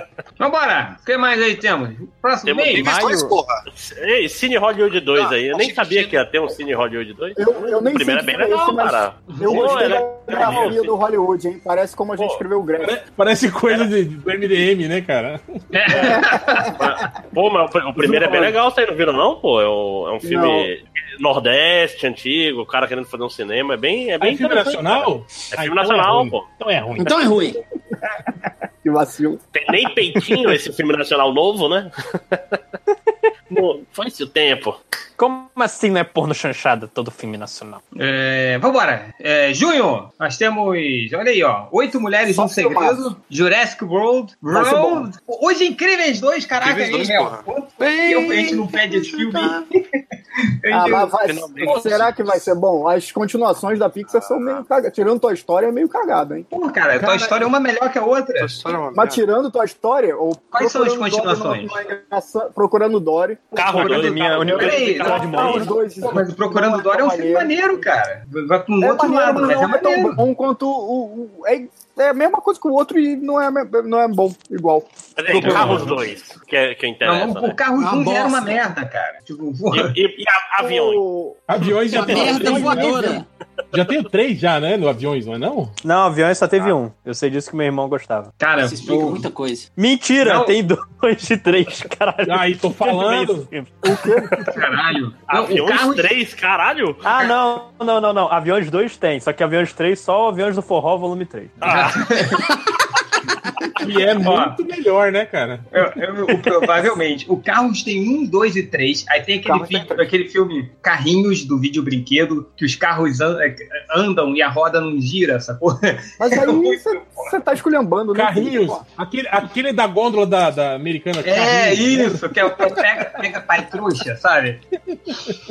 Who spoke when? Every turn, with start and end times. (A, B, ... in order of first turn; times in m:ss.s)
0:00.4-0:03.0 A
0:02.5-0:02.9 B
0:02.7-0:03.6 C
0:02.8-0:03.4 D
0:03.7-0:10.9 B
0:05.1-0:06.2 C
0:07.4-0:13.0 E
0:09.3-0:09.6 A
0:09.5-0:10.8 F
0:12.2-0:12.4 B
0:12.8-0:16.2 F
0:15.7-0:16.8 A
0:15.9-0:16.2 B
0:16.7-0:26.5 B
0:18.0-0:18.6 F
0:20.2-0:20.7 E
0:24.2-0:27.2 F
0:27.0-0:27.6 G
0:28.8-0:29.4 E
0:29.6-0:32.6 B
0:33.5-0:34.8 B
0:35.2-0:37.8 D
0:38.0-0:49.8 A
0:42.3-0:43.0 E
0:44.5-0:45.1 E
0:46.6-0:49.6 C
0:50.6-0:51.9 A
0:50.7-0:56.5 E
0:51.2-0:52.5 C
0:54.1-0:54.6 C
0:56.5-0:58.5 A
0:57.0-0:57.3 F
0:58.4-0:59.2 C
0:58.9-1:07.5 E
1:00.5-1:01.8 A
1:03.5-1:05.7 B
1:03.6-1:05.8 D
1:04.4-1:10.2 A
1:08.8-1:14.9 E
1:15.2-1:17.6 B
1:15.3-1:15.9 F
1:15.3-1:16.0 A
1:17.0-1:20.0 A
1:17.8-1:18.6 G
1:19.7-1:21.0 B
1:20.6-1:21.4 E
1:21.5-1:25.8 F
1:21.9-1:23.2 G
1:25.8-1:28.3 D
1:28.4-1:29.2 A
1:28.6-1:29.7 G
1:29.8-1:34.0 D
1:30.2-1:30.6 A
1:32.2-1:33.5 F
1:33.8-1:34.5 E
1:34.5-1:36.1 A
1:35.3-1:37.0 B
1:37.0-1:41.8 D
1:41.6-1:42.1 B
1:41.7-1:42.5 A
1:43.8-1:45.7 F
1:44.2-1:44.6 A
1:45.7-1:57.3 A
1:49.5-1:50.0 E
1:56.2-1:58.8 E
1:58.1-2:02.8 F
2:01.2-2:04.6 A
2:04.9-2:05.3 F